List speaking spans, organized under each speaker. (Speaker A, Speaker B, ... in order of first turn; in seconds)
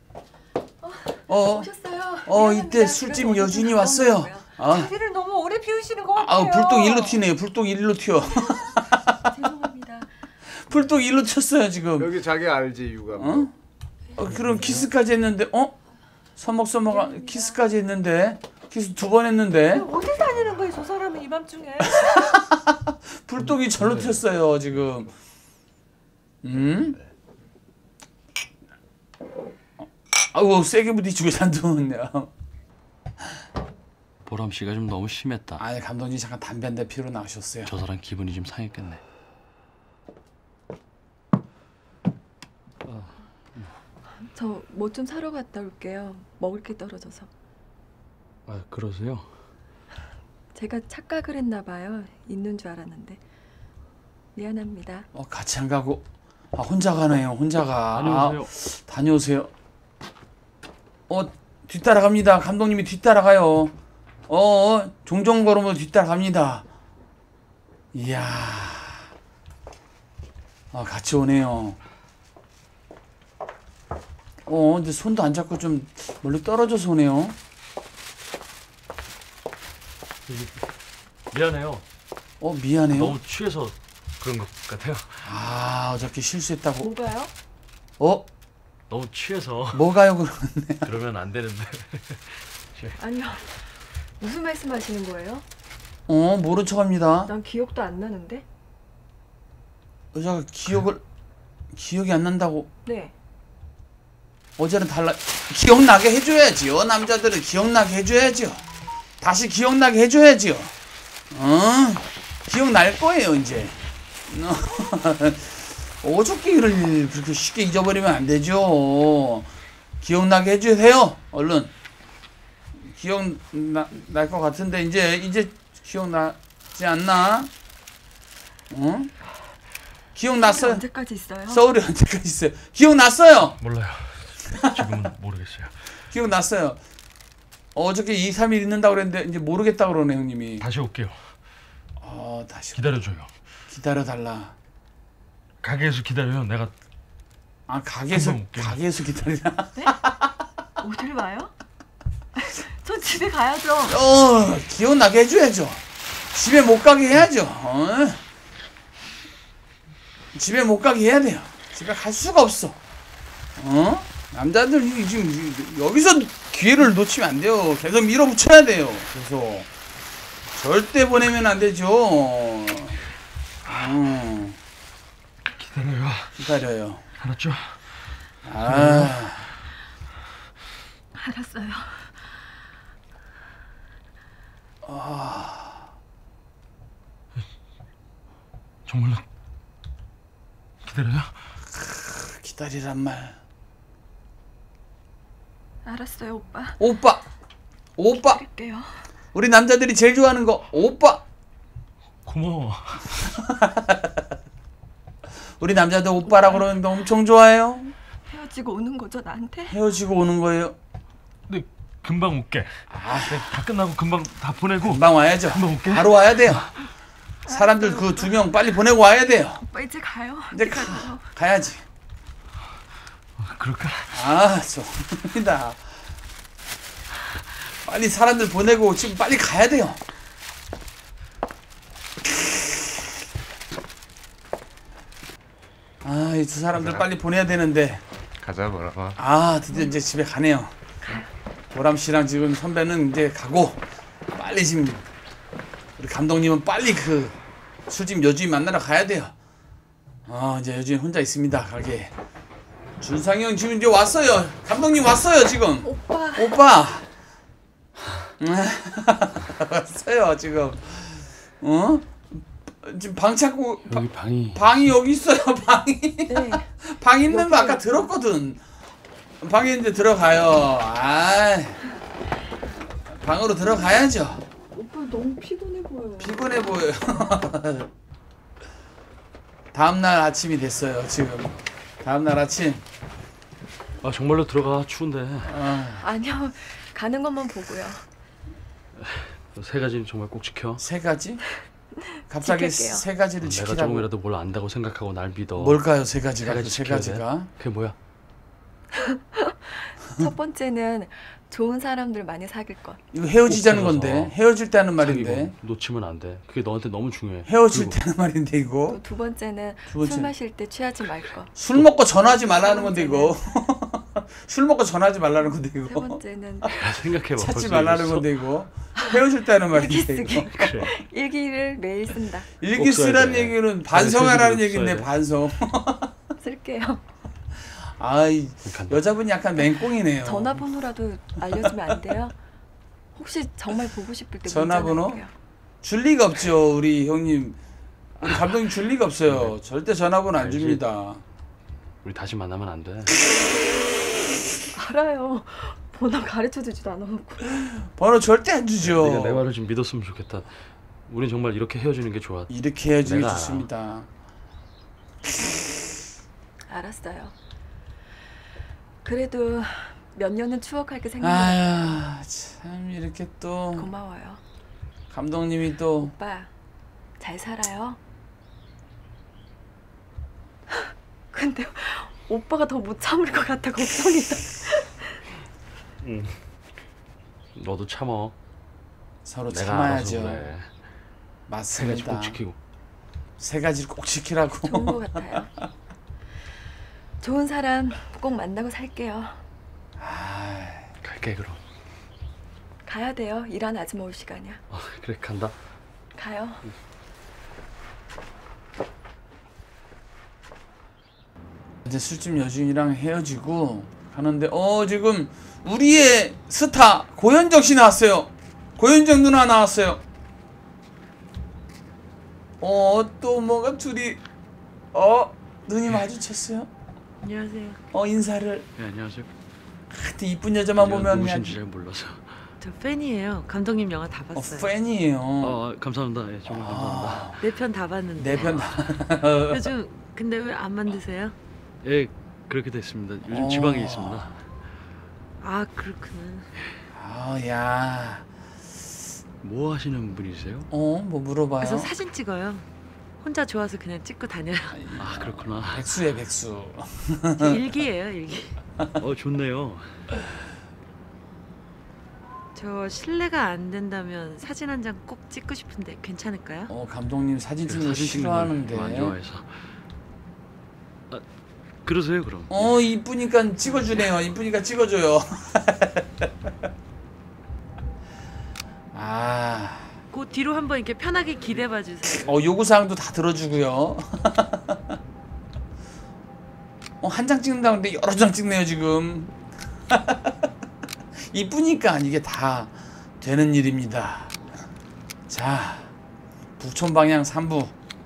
Speaker A: 0.8-4.5, 8.3-10.1, 16.9-17.6, 44.3-47.3, 50.5-53.2, 54.4-55.1, 86.8-87.3, 93.0-95.5, 97.2-98.5, 102.8-103.1, 130.4-131.7, 150.8-151.5, 152.4-154.0, 181.1-182.3, 195.8-196.8, 198.1-199.1, 208.3-209.8, 217.5-218.4, 219.6-221.2, 241.0-241.3, 255.8-256.6, 266.3-266.7, 267.3-268.1, 274.7-276.9, 286.0-288.1, 292.3-293.1, 299.0-303.0, 308.9-311.5, 312.1-313.4, 315.8-316.7, 319.6-322.5, 326.4-327.0, 329.6-332.4, 333.1-335.3, 344.7-347.5, 356.7-357.3, 359.0-362.0, 363.8-364.4, 366.0-366.5, 367.2-368.0, 370.7-375.2, 384.6-385.5, 387.2-389.4, 392.9-394.6, 396.1-396.7
Speaker B: 1.3-1.7, 2.2-4.9, 6.1-9.3, 10.5-12.1, 13.2-13.5, 14.2-15.8, 16.4-19.9, 21.9-25.1, 26.4-27.0, 29.8-32.3, 35.6-37.8, 55.1-59.5, 61.1-63.7, 64.3-66.7, 67.9-69.1, 70.7-71.8, 74.5-77.4, 82.4-83.2, 85.2-86.9, 88.0-88.3, 89.7-90.9, 96.1-97.3, 100.1-101.0, 101.7-102.7, 104.6-108.6, 109.2-110.7, 111.3-119.5, 120.0-121.7, 122.8-127.5, 128.7-129.1, 130.2-130.8, 131.5-133.6, 134.5-135.0, 136.1-136.8, 137.8-140.7, 142.0-142.8, 143.7-144.5, 147.7-150.1, 153.8-158.2, 160.3-162.8, 163.6-169.7, 170.5-173.0, 173.7-174.6, 176.4-177.0, 178.4-179.5, 184.8-185.9, 191.8-193.4, 196.8-197.3, 198.0-198.4, 199.3-201.2, 203.6-203.9, 205.6-207.9, 209.7-210.8, 212.9-213.6, 214.8-216.7, 217.5-219.7, 220.5-221.8, 224.1-225.9, 227.7-230.0, 236.0-238.0, 239.2-240.7, 241.7-245.1, 246.0-247.4, 247.9-249.3, 250.3-252.1, 253.0-257.1, 258.4-268.6, 269.4-271.9, 273.1-274.5, 276.2-277.9, 279.7-282.8, 285.5-286.0, 290.8-291.5, 292.3-294.1, 295.6-297.5, 303.1-305.6, 307.5-309.0, 309.9-310.3, 311.6-316.7, 317.4-320.9, 322.6-326.1, 327.9-330.8, 334.4-335.3, 335.8-337.6, 338.2-341.2, 347.9-349.4, 352.5-354.1, 361.2-363.9, 365.1-366.1, 379.2-380.5, 381.5-382.4, 383.4-385.5, 390.0-390.9, 401.9-410.0, 412.6-414.2, 414.9-416.7, 417.9-418.7, 419.9-421.6, 424.4-425.6, 426.4-427.4, 428.2-429.7, 433.3-434.3, 436.9-438.3, 440.7-441.9, 444.7-447.6, 456.7-459.2, 462.5-466.3, 468.9-469.9, 472.0-474.8, 477.0-479.3, 479.9-480.5, 481.2-484.4, 485.3-485.9, 486.6-487.7
Speaker C: 4.6-7.2, 19.7-22.2
Speaker D: 12.0-13.5, 236.7-237.1, 238.4-239.2
Speaker E: 34.2-35.6, 37.6-39.0, 42.9-43.7, 48.5-49.3, 57.9-58.5, 80.3-80.6, 81.3-81.8, 82.9-85.3, 88.9-89.9, 90.8-93.0, 133.6-135.7, 140.6-141.3, 142.8-143.3, 145.6-146.7, 148.1-148.8, 175.5-176.5, 177.2-177.9, 178.6-179.2, 188.9-189.2, 190.8-191.4, 202.2-203.4, 211.5-216.7, 223.4-224.3, 263.9-264.8, 284.0-285.5, 289.0-290.9, 293.4-295.8, 296.4-297.9, 303.5-304.4, 305.0-308.0, 311.7-312.0, 316.7-318.3, 320.4-321.0, 322.7-325.1, 328.6-329.0, 339.3-339.6, 340.3-340.8, 342.0-343.2, 348.8-353.7, 376.0-376.4, 377.6-378.3, 379.5-380.7, 381.7-382.6, 391.0-391.6, 394.7-395.5, 418.8-419.3, 420.8-422.4, 425.4-427.4, 431.8-434.4, 439.4-440.7, 445.0-445.9, 449.0-450.0, 457.6-459.7, 461.8-462.8
Speaker F: 417.2-417.8, 422.6-424.7, 427.4-431.4, 435.4-436.5, 441.6-442.7, 443.2-444.9, 447.4-448.6, 452.6-456.7, 463.6-464.0, 470.1-472.3